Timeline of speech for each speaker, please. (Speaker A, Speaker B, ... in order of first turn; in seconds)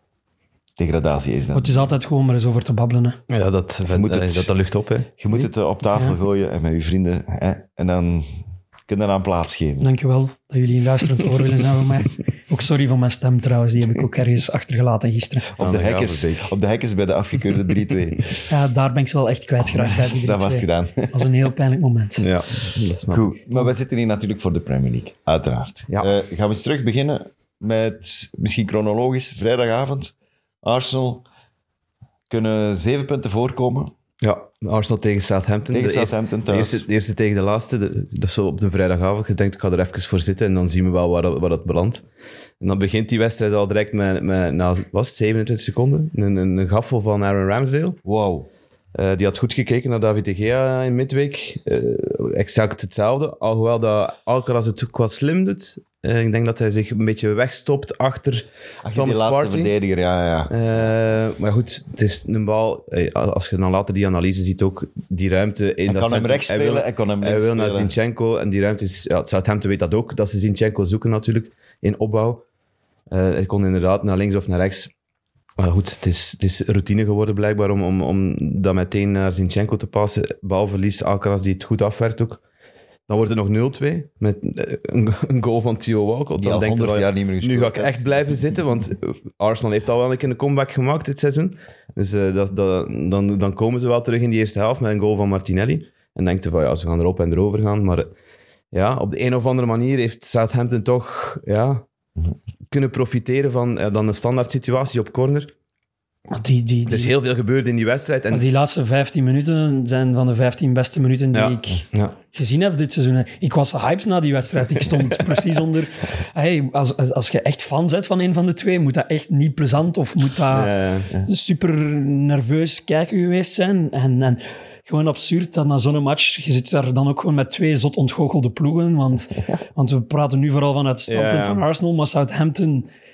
Speaker A: 0.8-1.9, 3.9-4.5, 5.2-9.9, 15.5-18.5, 19.6-21.3, 23.1-31.2, 32.3-33.9, 35.7-36.9, 48.0-48.5, 58.8-60.9, 65.9-67.9, 86.4-88.6
Speaker B: 1.5-3.2, 9.8-15.5, 18.5-22.3, 106.3-107.1, 108.3-132.9
Speaker C: 3.3-5.1, 15.6-16.5, 22.2-23.4, 34.2-42.0, 42.6-48.0, 48.9-59.7, 60.5-72.4, 73.1-74.9, 75.6-82.4, 83.1-98.1, 98.7-101.8, 102.7-105.5, 106.9-108.5, 111.3-112.2, 120.5-121.1, 131.1-131.6